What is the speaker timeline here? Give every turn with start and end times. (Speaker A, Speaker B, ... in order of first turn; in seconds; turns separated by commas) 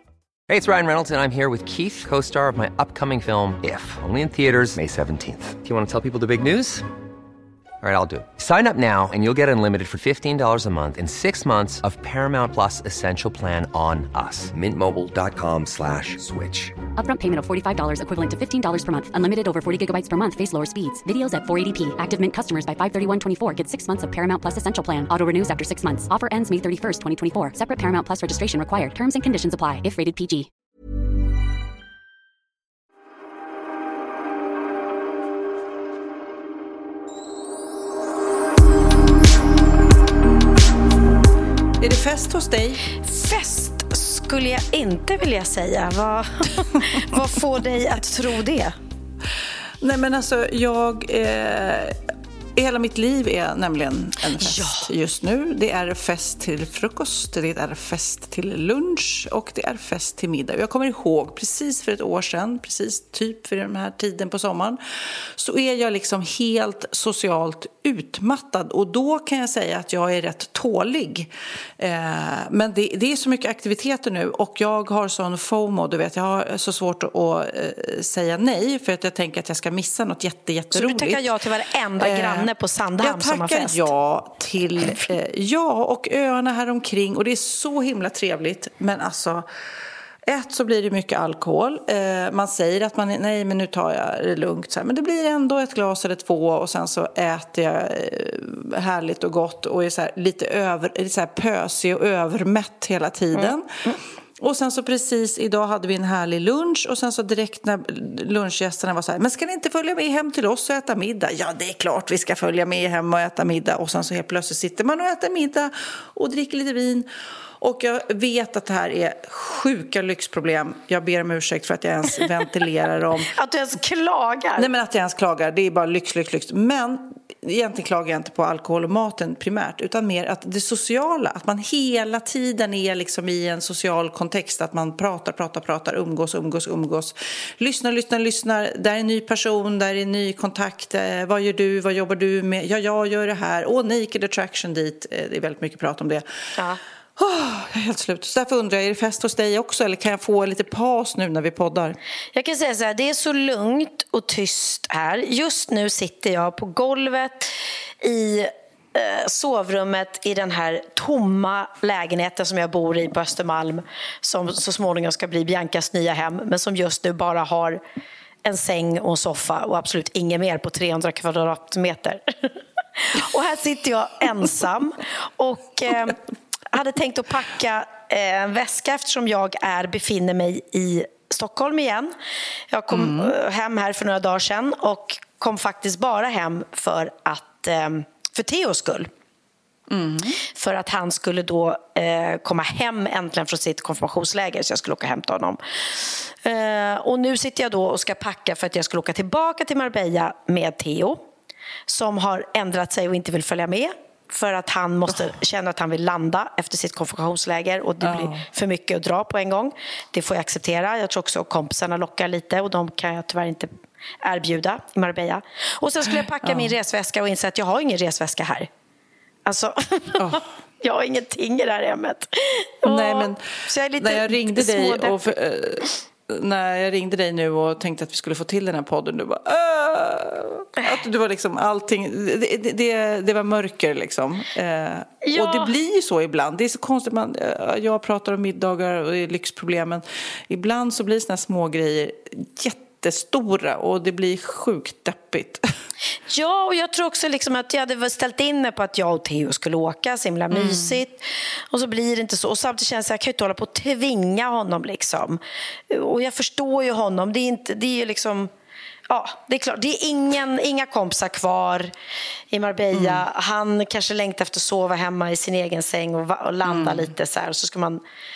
Speaker A: 0.5-6.8, Speaker A: 7.8-16.8, Speaker B: 16.9-30.5, Speaker C: 41.8-42.8, Speaker D: 43.0-48.7, Speaker C: 49.8-52.0, Speaker C: 52.5-64.8, Speaker D: 54.4-54.9, Speaker C: 65.4-81.3, Speaker D: 80.7-83.9, Speaker C: 82.0-89.5, Speaker C: 90.2-103.7, Speaker D: 103.3-104.0, Speaker C: 104.4-117.1, Speaker C: 117.6-123.3, Speaker D: 123.3-124.7, Speaker C: 124.6-146.2, Speaker C: 147.2-152.0, Speaker D: 152.3-167.8, Speaker D: 168.4-176.2, Speaker D: 176.7-182.1, Speaker D: 182.7-189.1, Speaker C: 182.9-183.3, Speaker C: 189.9-190.4, Speaker D: 190.5-201.3, Speaker D: 201.9-213.7, Speaker C: 208.0-208.4, Speaker D: 214.2-218.7, Speaker C: 216.4-216.7, Speaker D: 219.4-225.3, Speaker C: 220.2-220.5, Speaker C: 222.8-245.6, Speaker D: 235.2-235.7, Speaker D: 246.3-258.5, Speaker C: 250.5-251.0, Speaker D: 259.1-261.9, Speaker D: 262.5-268.0, Speaker C: 262.9-263.2, Speaker C: 266.6-267.1